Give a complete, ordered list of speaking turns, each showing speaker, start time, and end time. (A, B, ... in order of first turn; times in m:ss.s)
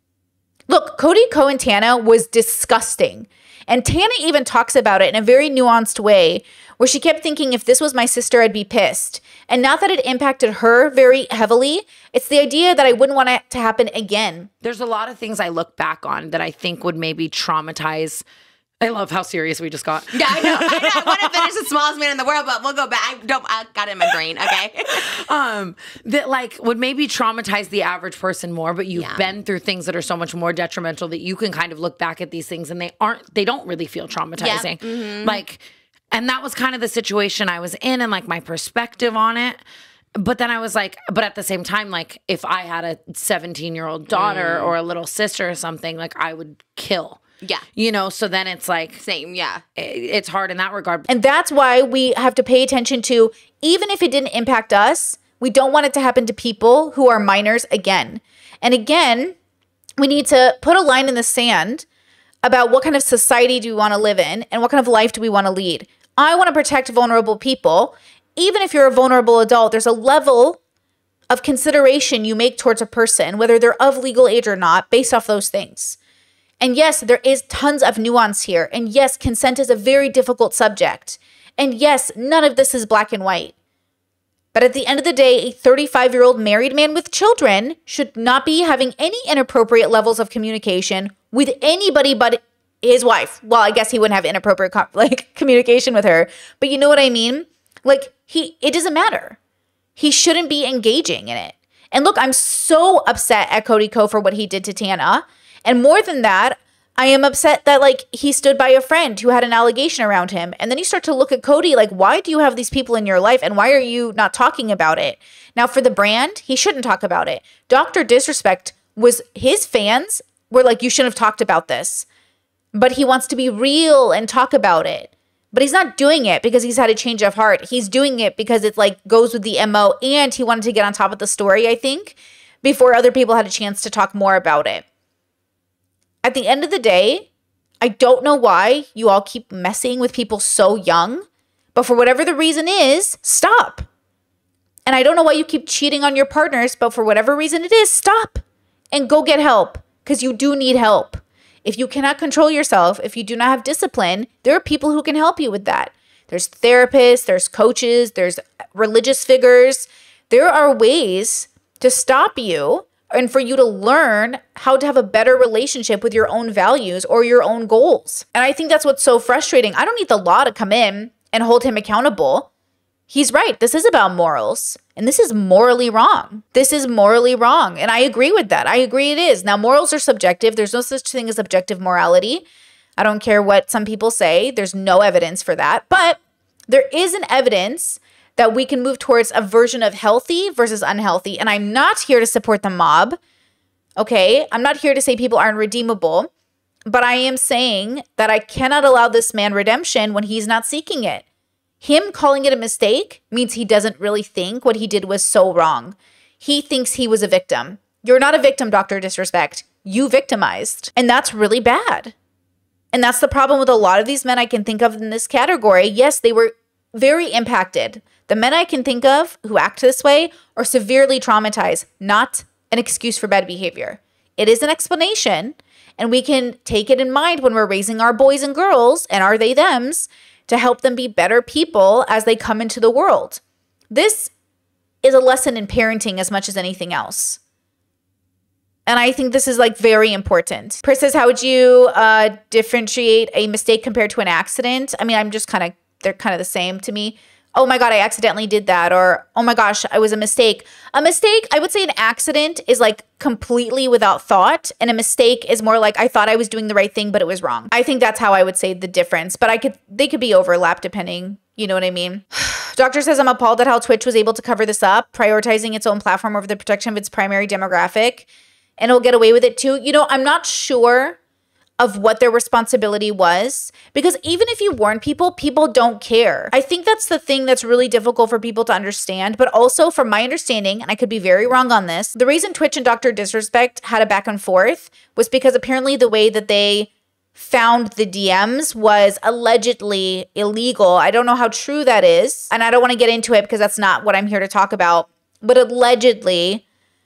0:00.7-0:14.5 A
0:14.6-0:18.2 B
0:18.8-0:21.5 B
0:20.1-0:25.0 C
0:25.1-0:39.6 B
0:28.9-0:29.3 C
0:34.4-0:35.4 C
0:40.2-0:47.2 B
0:44.1-0:44.7 C
0:47.4-0:47.7 C
0:47.7-0:49.0 B
0:49.0-0:49.6 C
0:49.7-0:51.1 B
0:51.1-0:59.4 A
1:00.0-1:01.8 A
1:02.4-1:10.6 A
1:11.3-1:16.0 A
1:16.6-1:23.5 A
1:24.5-1:39.4 A
1:40.0-2:02.1 A
2:02.7-2:14.8 A
2:16.2-2:17.3 A
2:17.8-2:23.8 A
2:24.8-2:52.5 A
2:53.1-3:02.4 A
3:03.0-3:13.2 A
3:14.0-3:16.3 A
3:16.8-3:21.2 A
3:21.8-3:32.1 A
3:32.9-3:53.4 A
3:53.9-3:54.3 A
3:55.0-3:57.4 A
3:58.8-4:28.3 A
4:28.8-4:31.2 A
4:31.8-4:56.6 A